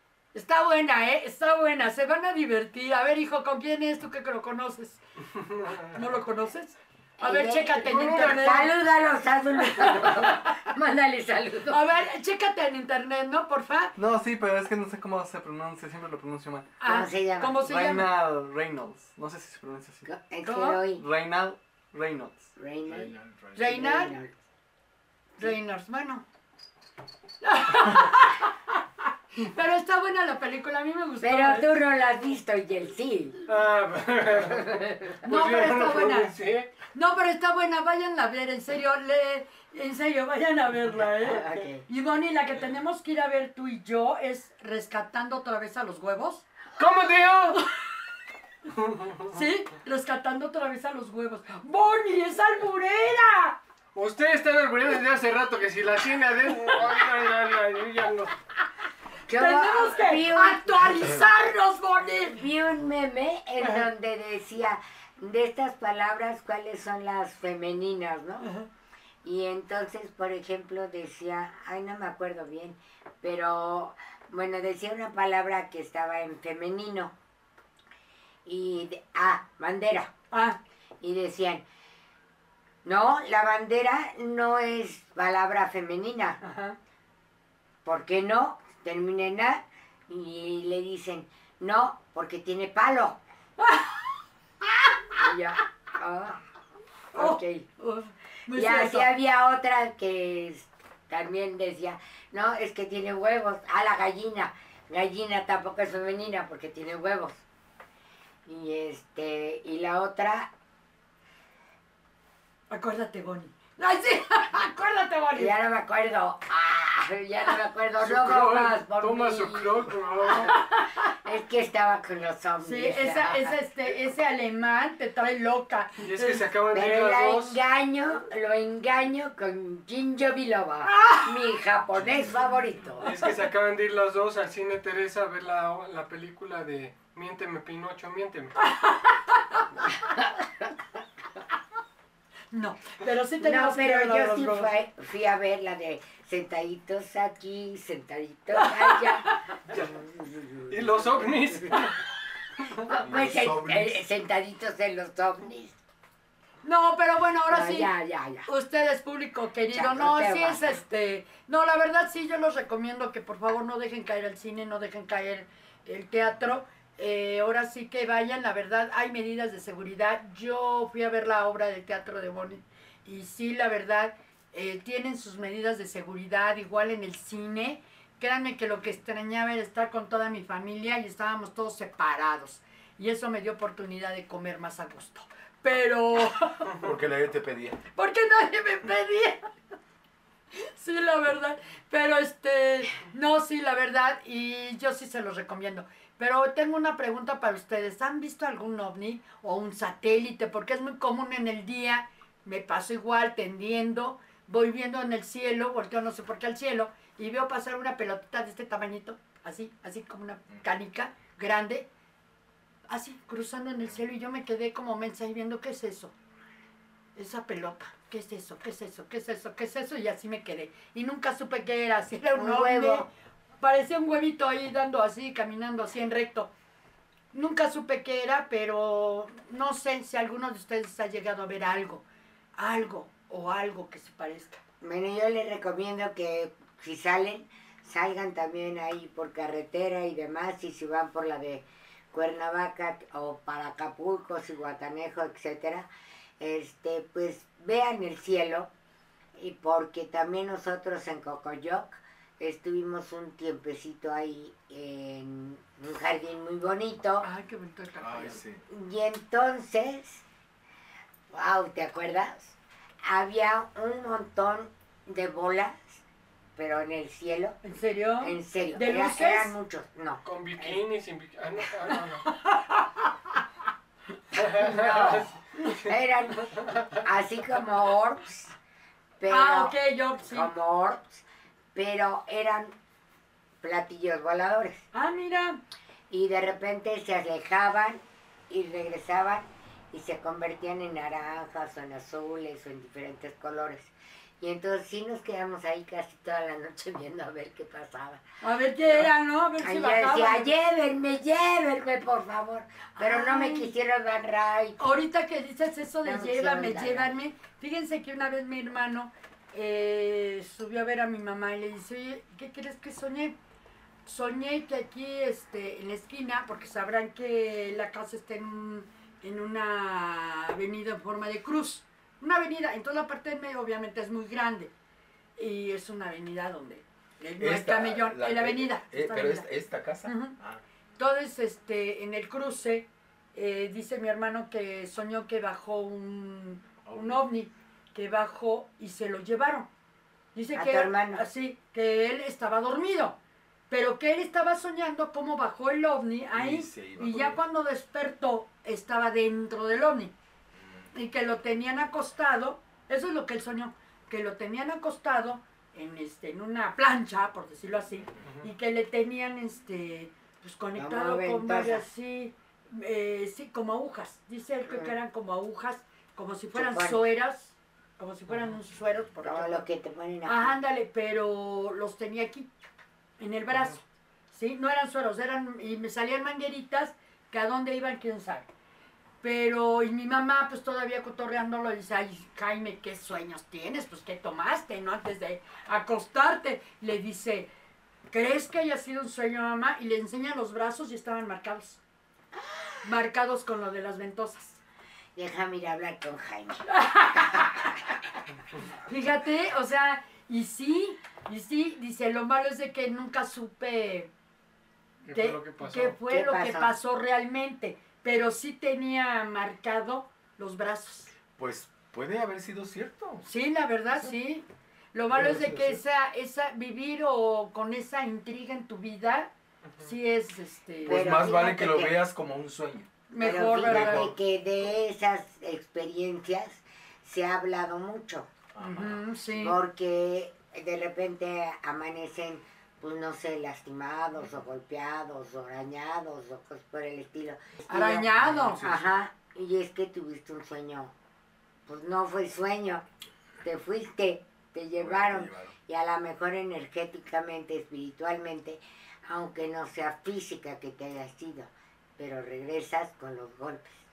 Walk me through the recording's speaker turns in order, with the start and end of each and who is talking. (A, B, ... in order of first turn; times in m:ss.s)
0:00.3-0:05.0 A
0:05.4-0:05.8 B
0:05.7-0:08.7 A
0:07.2-0:11.8 C
0:07.9-0:08.6 B
0:09.6-0:10.6 A
0:11.7-0:13.9 A
0:14.0-0:16.8 D
0:16.8-0:18.1 A
0:16.8-0:17.6 C
0:17.6-0:20.1 D
0:20.1-0:21.0 C
0:20.4-0:20.8 A
0:20.9-0:22.5 D
0:22.6-0:24.3 C
0:22.9-0:23.9 E
0:23.6-0:24.2 A
0:25.4-0:26.2 A
0:27.4-0:28.8 A
0:29.3-0:31.8 A
0:31.2-0:33.4 C
0:33.5-0:36.7 B
0:34.4-0:35.2 C
0:35.2-0:36.3 A
0:36.9-0:46.4 A
0:41.2-0:41.8 C
0:46.8-0:47.6 B
0:48.8-0:49.3 B
0:49.3-0:53.6 A
0:53.9-0:58.4 B
0:59.3-1:01.2 C
0:59.3-1:02.4 A
1:02.4-1:08.5 C
1:03.6-1:03.9 A
1:08.4-1:08.7 A
1:09.2-1:17.1 C
1:18.4-1:20.1 C
1:20.3-1:20.6 A
1:21.0-1:21.6 C
1:22.8-1:26.4 C
1:26.4-1:26.8 A
1:27.8-1:33.2 C
1:33.6-1:34.0 A
1:34.6-1:35.2 A
1:35.2-1:36.4 C
1:37.1-1:37.6 C
1:37.1-1:39.1 A
1:38.5-1:47.4 C
1:48.4-1:50.5 C
1:52.7-1:55.6 A
1:55.4-2:03.5 C
1:58.0-2:00.6 B
2:00.4-2:00.9 A
2:02.6-2:06.4 A
2:06.0-2:07.6 B
2:06.7-2:13.1 C
2:10.9-2:11.3 A
2:12.0-2:12.6 E
2:13.0-2:18.6 B
2:18.6-2:19.6 A
2:19.8-2:20.7 C
2:22.5-2:24.7 A
2:23.4-2:31.8 C
2:28.6-2:29.4 A
2:29.7-2:29.9 B
2:30.7-2:32.1 B
2:32.6-2:32.8 B
2:32.9-2:35.8 C
2:33.0-2:34.0 E
2:36.6-2:37.9 A
2:37.5-2:38.5 C
2:38.4-3:06.7 A
2:39.7-2:40.8 C
3:06.7-3:07.8 E
3:08.0-3:09.5 A
3:10.6-3:31.9 A
3:32.9-3:36.1 A
3:37.2-3:43.1 A
3:42.4-3:43.1 C
3:43.6-3:46.5 A
3:47.3-3:52.0 A
3:52.6-3:54.6 A
3:54.8-4:05.9 C
4:06.4-4:08.7 C
4:09.3-4:17.3 C
4:17.2-4:18.4 A
4:18.0-4:18.6 E
4:18.7-4:20.2 C
4:21.3-4:26.0 C
4:26.6-4:27.6 C
4:27.6-4:29.5 A
4:28.2-4:30.8 C
4:30.2-4:32.3 B
4:32.3-4:33.4 A
4:34.4-4:38.6 C
4:34.4-4:35.3 B
4:39.2-4:41.2 C
4:39.3-4:40.5 A
4:41.7-4:42.8 C
4:43.6-4:44.8 C
4:44.9-4:45.6 A
4:46.1-4:58.2 C
4:58.4-5:00.5 A
4:58.9-5:04.8 C
5:03.0-5:03.7 A
5:04.8-5:13.4 A
5:06.0-5:07.1 C
5:14.0-5:24.7 A
5:25.4-5:29.5 A
5:27.4-5:30.6 E
5:30.0-5:30.4 A
5:31.0-5:39.7 A
5:36.8-5:37.2 E
5:40.3-5:43.2 A
5:40.5-5:41.2 C
5:43.7-5:50.1 A
5:46.3-5:47.4 E
5:50.9-6:09.7 A
6:00.8-6:01.9 C
6:04.7-6:04.9 C
6:06.5-6:07.0 C
6:09.2-6:10.5 C
6:10.2-6:12.5 A
6:13.2-6:18.5 A
6:19.2-6:27.5 A
6:28.1-6:31.8 A
6:32.4-6:32.7 C
6:32.8-6:34.6 A
6:35.1-6:37.9 C
6:36.7-6:37.9 A
6:38.8-6:44.1 A
6:45.1-6:46.0 B
6:45.1-6:51.1 A
6:46.1-6:46.7 C
6:51.4-6:53.3 E
6:53.2-7:01.2 A
6:55.1-6:55.8 E
7:00.8-7:01.9 C
7:00.8-7:04.8 E
7:03.1-7:04.1 A
7:03.2-7:08.3 C
7:08.5-7:09.0 E
7:08.6-7:09.6 A
7:09.4-7:18.0 C
7:17.7-7:18.9 E
7:17.7-7:18.6 A
7:18.6-7:20.9 C
7:21.7-7:22.8 C
7:23.4-7:33.8 C
7:24.8-7:25.6 E